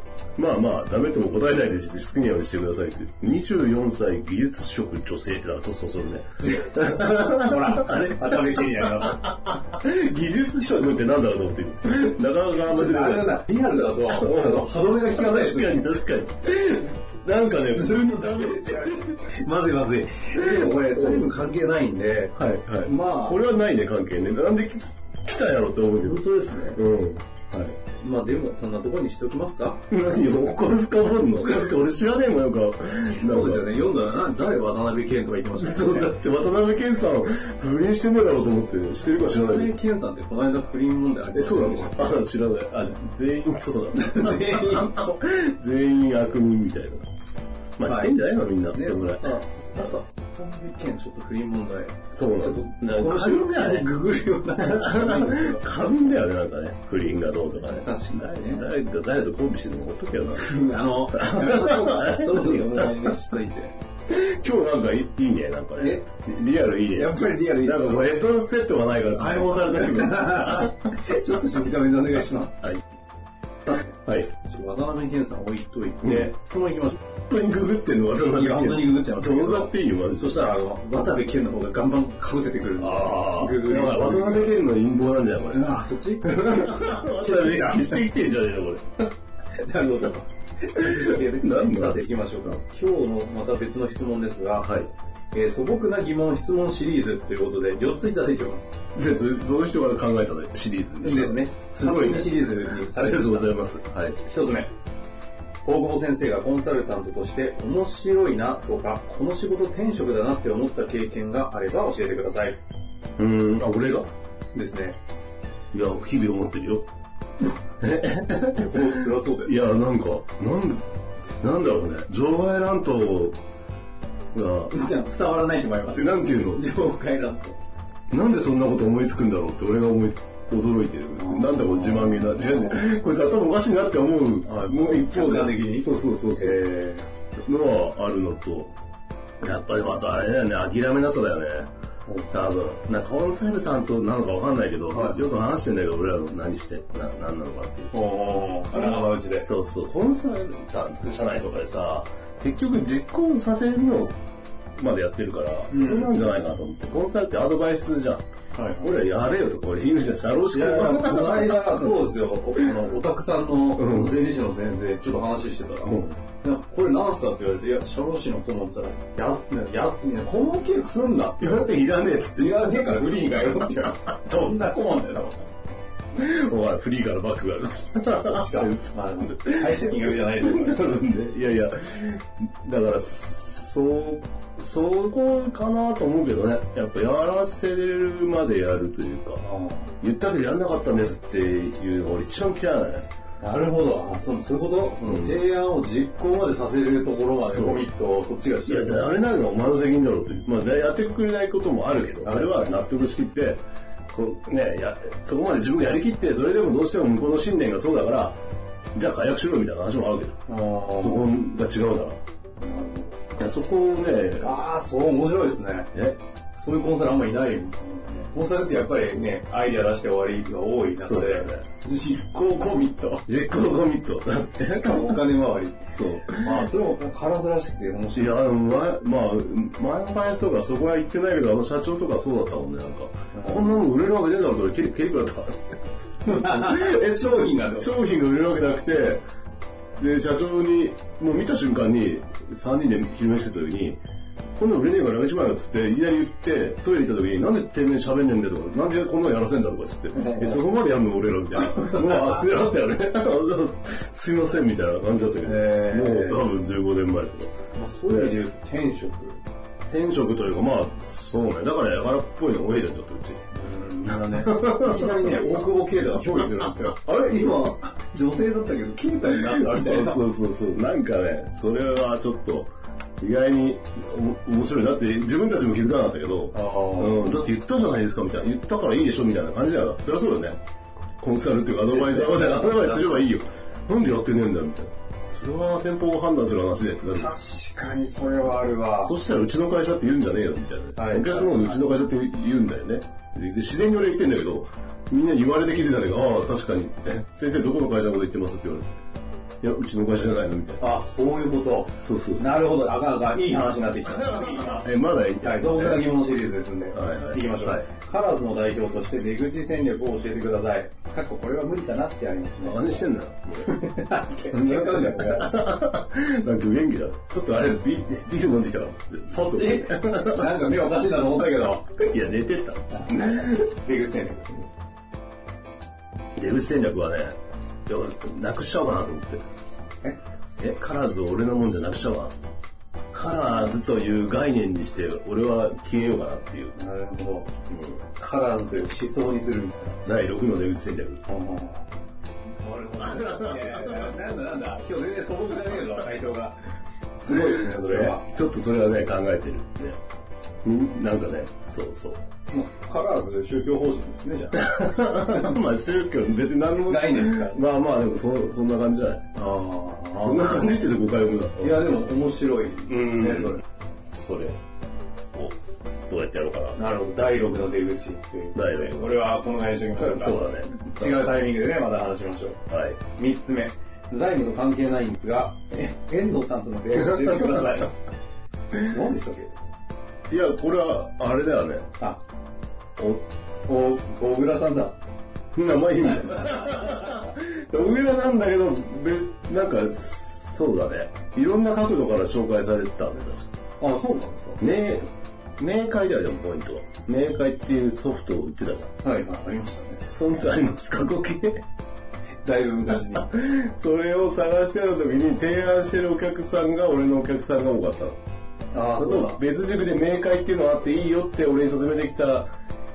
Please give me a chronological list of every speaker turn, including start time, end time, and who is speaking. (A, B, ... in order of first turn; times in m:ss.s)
0:00.4-0:19.3 A
0:06.4-0:09.3 B
0:12.6-0:15.8 B
0:17.8-0:23.4 B
0:20.4-0:21.3 A
0:22.3-0:26.2 A
0:26.0-0:26.8 B
0:26.7-0:27.7 A
0:27.8-0:29.8 B
0:29.9-0:33.7 A
0:33.2-0:36.1 B
0:35.6-0:39.7 A
0:39.2-0:42.2 B
0:41.3-0:47.0 A
0:43.9-0:45.2 B
0:47.8-0:49.3 A
0:47.8-0:55.7 B
0:52.1-0:53.9 A
0:54.6-1:00.5 A
0:57.3-0:58.7 B
1:00.4-1:03.8 B
1:01.1-1:03.0 A
1:04.1-1:10.9 A
1:05.8-1:06.1 B
1:07.0-1:08.1 B
1:09.2-1:12.7 B
1:13.7-1:14.3 A
1:14.4-1:17.0 B
1:16.0-1:16.3 A
1:17.3-1:20.4 A
1:18.3-1:24.5 B
1:22.8-1:29.1 A
1:25.5-1:28.0 B
1:29.6-1:34.7 B
1:30.8-1:32.6 A
1:34.6-1:34.9 A
1:35.3-1:38.8 B
1:39.0-1:44.2 A
1:41.0-1:43.5 B
1:44.2-1:44.7 B
1:45.6-1:52.6 B
1:53.2-1:54.1 A
1:54.5-1:55.0 B
1:55.7-1:56.9 A
1:57.8-2:00.8 A
1:58.5-1:59.6 B
2:01.4-2:03.4 A
2:04.3-2:04.7 A
2:04.7-2:07.6 B
2:05.9-2:06.6 A
2:08.1-2:16.6 A
2:11.2-2:12.9 B
2:14.4-2:17.1 B
2:17.4-2:18.8 A
2:19.4-2:21.7 A
2:22.1-2:22.3 B
2:22.3-2:27.9 A
2:24.9-2:25.3 B
2:27.9-2:29.5 B
2:28.7-2:34.2 A
2:34.8-2:38.2 A
2:35.7-2:36.1 B
2:38.5-2:38.9 B
2:38.8-2:42.0 A
2:40.5-2:51.8 B
2:43.8-2:44.2 A
2:45.8-2:46.2 A
2:51.4-2:53.8 A
2:52.3-2:55.4 B
2:56.2-3:09.4 A
2:58.2-3:01.0 B
3:09.4-3:09.9 B
3:10.0-3:13.1 A
3:13.4-3:19.1 B
3:15.0-3:15.4 A
3:17.4-3:17.9 A
3:18.7-3:28.4 A
3:22.2-3:22.8 B
3:29.0-3:30.4 A
3:30.5-3:31.3 B
3:31.0-3:32.2 A
3:32.6-3:33.2 B
3:33.4-3:34.6 A
3:34.4-3:35.9 B
3:36.5-3:43.3 B
3:38.6-3:39.3 A
3:41.0-3:41.7 A
3:43.3-3:45.3 A
3:44.7-3:45.8 B
3:45.9-3:46.9 A
3:46.3-3:48.4 B
3:48.1-3:55.6 A
3:53.3-3:53.9 B
3:56.2-3:57.9 B
3:56.3-3:59.2 A
4:00.0-4:04.0 A
4:04.6-4:17.5 A
4:10.1-4:10.6 B
4:11.7-4:12.4 B
4:15.4-4:16.4 B
4:17.7-4:19.4 B
4:19.9-4:23.4 A
4:23.5-4:30.2 B
4:24.1-4:25.6 A
4:26.4-4:26.7 A
4:29.3-4:40.6 A
4:36.5-4:37.5 B
4:41.2-4:47.3 A
4:41.9-4:43.3 B
4:47.1-4:49.2 B
4:49.0-4:59.0 A
4:51.0-4:52.0 B
4:59.6-5:00.8 A
5:00.8-5:13.1 B
5:01.9-5:02.7 A
5:04.1-5:06.2 A
5:06.9-5:07.9 A
5:12.6-5:13.9 A
5:13.6-5:15.6 B
5:14.5-5:20.6 A
5:19.3-5:21.9 B
5:22.0-5:23.7 A
5:22.9-5:24.6 B
5:26.4-5:29.4 A
5:30.6-5:32.3 A
5:33.1-5:36.8 A
5:33.4-5:33.8 B
5:36.8-5:37.5 B
5:37.7-5:38.0 A
5:38.2-5:40.0 B
5:40.0-5:41.2 A
5:41.3-5:41.9 B
5:42.6-5:46.6 B
5:43.0-5:44.1 A
5:47.2-5:48.3 B
5:47.3-5:50.0 A
5:50.6-5:52.2 A
5:52.5-5:55.6 B
5:54.6-5:59.3 A
5:56.9-5:57.6 B
5:59.3-6:00.8 B
6:00.1-6:01.9 A
6:01.6-6:03.6 B
6:02.9-6:04.6 A
6:06.1-6:06.8 A
6:06.8-6:17.9 B
6:08.6-6:09.4 A
6:10.0-6:11.4 A
6:12.7-6:13.0 A
6:17.2-6:17.7 A
6:18.8-6:19.6 B
6:20.3-6:21.9 A
6:23.7-6:25.0 B
6:25.5-6:33.5 A
6:33.8-6:34.6 B
6:34.6-6:38.9 A
6:39.0-6:40.0 B
6:40.0-6:41.6 A
6:42.4-6:43.3 B
6:43.1-6:48.2 A
6:48.7-6:49.4 B
6:49.0-6:52.5 A